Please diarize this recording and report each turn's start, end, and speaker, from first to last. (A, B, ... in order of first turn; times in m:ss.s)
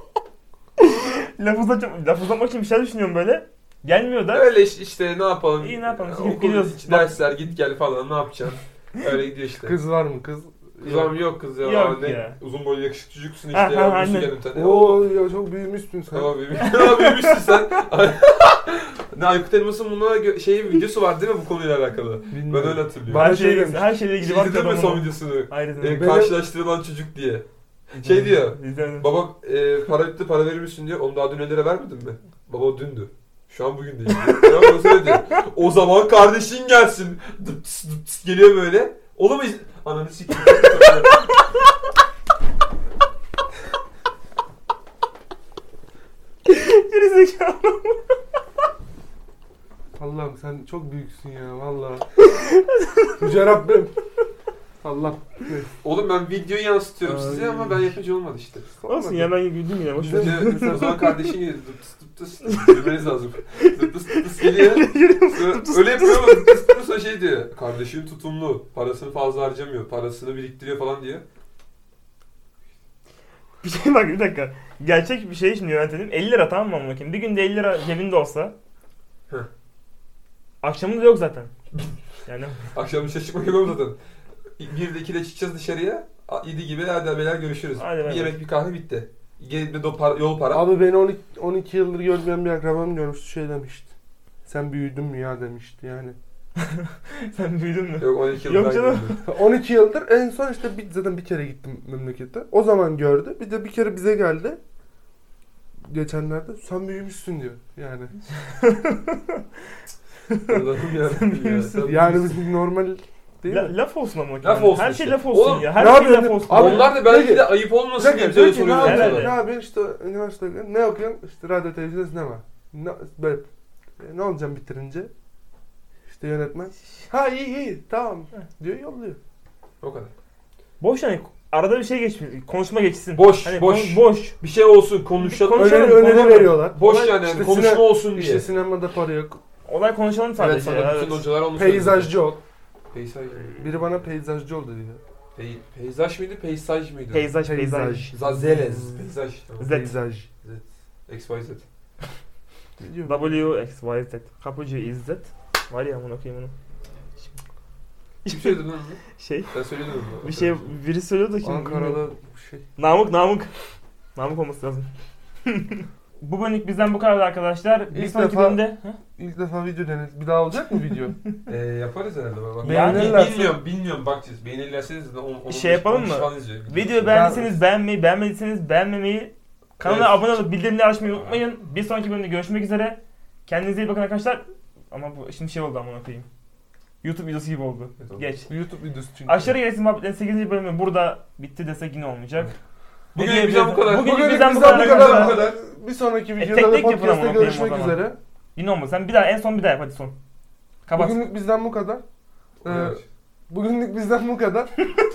0:00.8-0:04.5 A
0:04.3-0:09.8 B
0:05.6-0:07.2 A
0:09.6-0:11.2 C
0:10.8-0:15.0 B
0:11.6-0:12.4 A
0:13.5-0:14.3 A
0:14.5-0:16.3 C
0:16.1-0:23.4 B
0:16.6-0:17.4 A
0:22.3-0:24.0 C
0:23.1-0:26.2 A
0:24.2-0:27.4 B
0:25.9-0:26.4 C
0:27.9-0:28.3 C
0:28.0-0:41.3 B
0:28.1-0:29.1 A
0:46.5-0:48.2 A
0:50.0-0:52.1 C
0:52.2-0:53.2 A
0:53.2-0:53.9 C
0:54.8-0:55.7 C
0:55.8-0:58.7 B
0:57.0-0:57.9 A
0:58.8-0:59.3 C
0:58.9-1:01.2 A
1:00.0-1:01.0 C
1:00.1-1:11.2 B
1:02.4-1:02.9 A
1:03.6-1:06.7 A
1:13.6-1:18.5 A
1:20.6-1:21.5 A
1:22.3-1:22.6 A
1:22.7-1:24.0 B
1:24.6-1:30.7 B
1:27.8-1:28.4 A
1:30.5-1:33.9 C
1:34.5-1:36.2 C
1:36.6-1:39.2 A
1:38.0-1:39.2 B
1:39.2-1:44.6 C
1:45.9-1:48.1 C
1:48.4-1:49.4 A
1:50.3-1:51.9 A
1:50.4-1:52.4 B
1:51.8-1:53.7 C
1:53.5-1:57.0 A
1:54.4-1:55.9 B
1:55.7-2:05.1 C
1:56.5-1:59.4 B
1:58.8-1:59.4 A
2:06.1-2:09.2 C
2:09.8-2:10.1 B
2:10.8-2:14.4 A
2:13.2-2:18.5 B
2:15.2-2:16.5 A
2:15.6-2:19.4 C
2:19.7-2:21.2 A
2:20.4-2:22.3 B
2:20.5-2:22.4 C
2:22.9-2:23.7 B
2:23.6-2:25.0 C
2:25.4-2:27.3 B
2:27.1-2:28.1 A
2:27.4-2:29.0 C
2:28.1-2:29.8 B
2:29.6-2:30.0 A
2:29.6-2:30.3 C
2:30.4-2:31.6 B
2:32.8-2:33.4 C
2:33.0-2:36.5 A
2:38.2-2:39.6 A
2:38.3-2:40.7 B
2:40.2-2:42.0 A
2:41.4-2:42.6 C
2:42.8-2:43.5 A
2:44.2-2:44.9 A
2:45.5-2:49.0 A
2:47.9-2:48.6 C
2:49.2-2:51.2 C
2:51.5-2:57.4 B
2:52.6-2:53.6 C
2:52.6-2:53.3 A
2:55.5-3:06.3 A
2:57.1-2:57.6 C
2:59.8-3:00.4 B
3:07.0-3:08.5 A
3:08.5-3:09.5 C
3:09.3-3:12.6 A
3:13.1-3:15.6 B
3:13.2-3:15.4 A
3:13.9-3:18.2 C
3:16.4-3:18.0 A
3:18.6-3:20.2 A
3:20.9-3:21.3 A
3:21.0-3:22.0 C
3:22.6-3:23.0 B
3:22.6-3:24.7 C